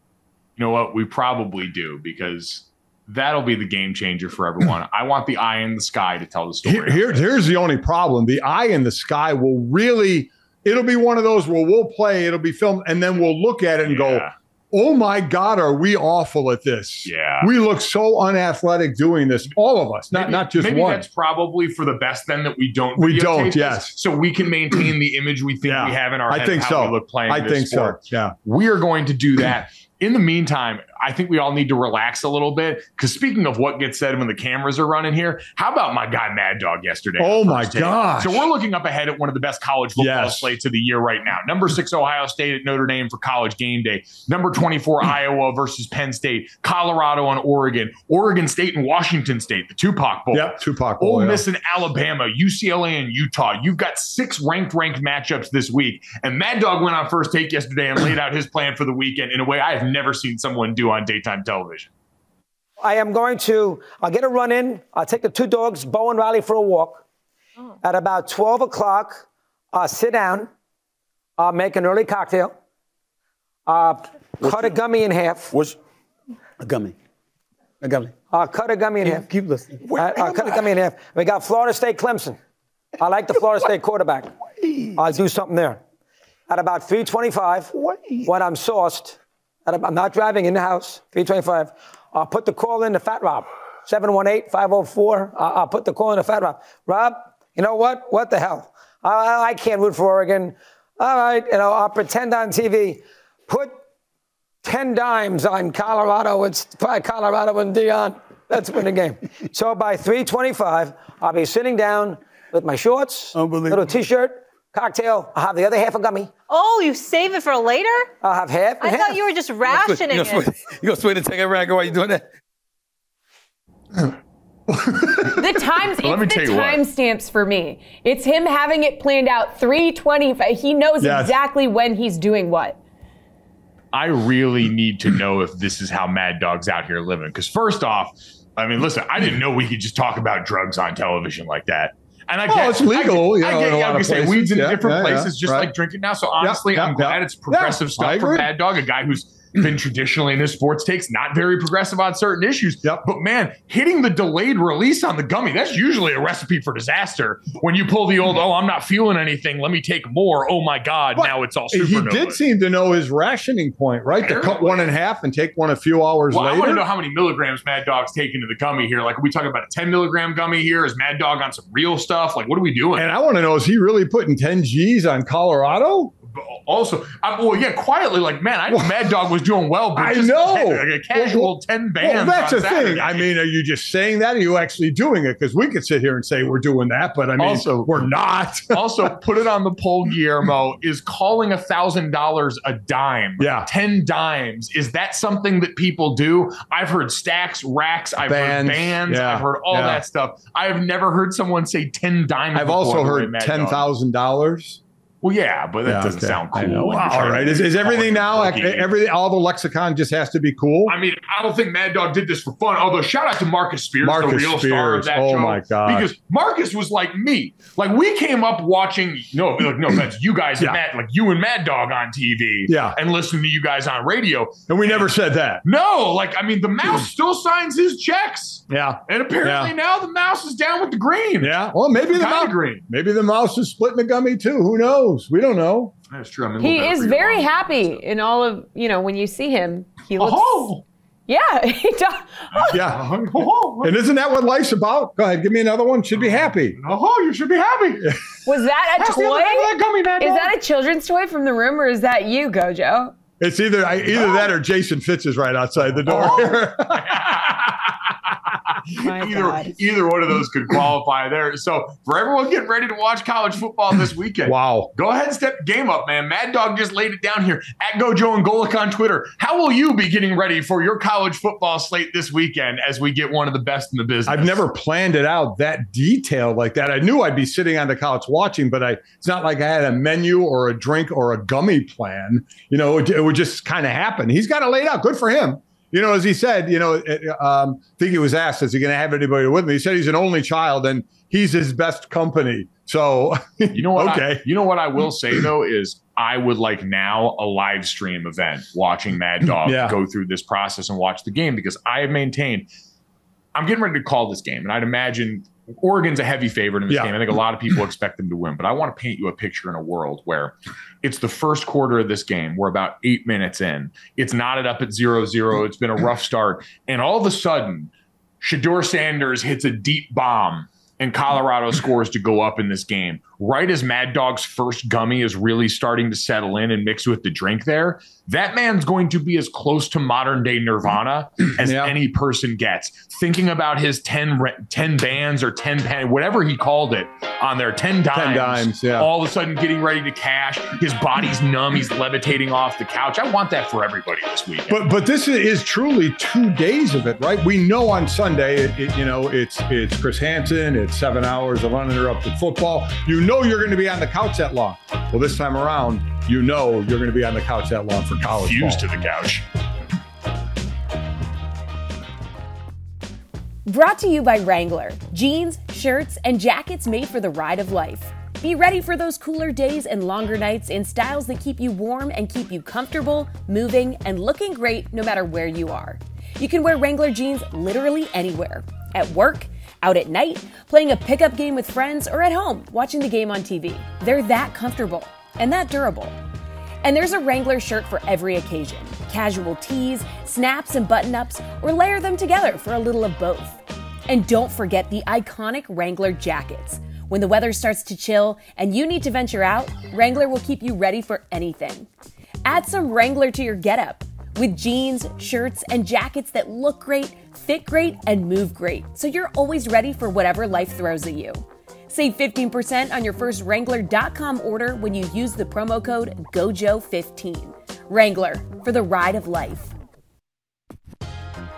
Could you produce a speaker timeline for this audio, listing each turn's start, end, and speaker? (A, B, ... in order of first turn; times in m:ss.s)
0:00.6-0:07.3 A
0:06.6-0:21.0 B
0:13.9-0:14.3 A
0:17.0-0:17.5 A
0:20.1-1:01.9 A
0:23.0-0:24.0 B
0:25.6-0:28.3 B
0:37.2-0:38.5 B
0:40.0-0:40.5 B
0:50.3-0:51.4 B
1:02.8-1:07.0 C
1:07.8-1:10.5 C
1:11.4-1:12.6 C
1:13.7-1:15.5 C
1:14.4-1:14.8 D
1:15.5-1:15.8 D
1:16.6-1:16.9 D
1:17.8-1:18.1 D
1:18.3-1:19.3 C
1:19.0-1:20.6 D
1:19.9-1:22.4 C
1:23.0-1:24.3 C
1:25.0-1:25.8 C
1:26.5-1:27.7 C
1:27.8-1:28.2 D
1:28.2-1:43.8 C
1:44.6-1:56.3 C
1:53.3-1:54.0 D
1:56.5-1:58.1 E
1:58.2-1:59.2 C
1:58.8-2:00.5 E
1:59.7-2:02.3 D
2:04.7-2:05.4 B
2:05.2-2:12.8 F
2:06.0-2:06.8 A
2:11.0-2:11.3 B
2:13.9-2:42.4 A
2:22.5-2:25.7 B
2:26.4-2:28.5 B
2:41.2-2:46.8 B
2:44.2-2:44.9 A
2:46.3-2:53.1 A
2:53.0-2:56.1 B
2:56.3-3:03.2 A
3:00.0-3:09.1 B
3:07.4-3:08.1 A
3:08.7-3:23.9 A
3:13.4-3:13.7 B
3:18.2-3:20.0 B
3:22.6-3:24.8 B
3:25.2-3:28.9 A
3:25.8-3:31.0 B
3:30.9-3:45.1 A
3:34.0-3:36.1 B
3:42.7-3:43.0 B
3:44.7-3:45.6 B
3:45.6-3:52.8 A
3:48.7-3:49.7 B
3:51.4-3:55.9 B
3:56.1-3:58.0 A
3:56.6-4:00.7 F
4:00.2-4:00.8 A
4:01.3-4:02.8 F
4:02.5-4:03.9 A
4:02.7-4:03.1 B
4:03.8-4:06.8 B
4:06.2-4:08.2 A
4:08.5-4:13.1 F
4:09.0-4:10.5 A
4:13.4-4:17.5 B
4:16.1-4:17.9 A
4:18.9-4:34.6 A
4:19.0-4:19.7 F
4:24.5-4:24.9 B
4:34.3-4:54.5 B
4:53.7-5:02.7 A
4:59.5-5:00.0 B
5:03.6-5:44.8 A
5:06.9-5:07.2 B
5:31.6-5:32.0 B
5:38.1-5:39.1 B
5:44.7-5:58.9 B
5:58.2-5:59.5 A
6:03.7-6:26.2 F
6:26.8-6:33.6 F
6:34.1-6:41.9 F
6:42.4-6:59.7 F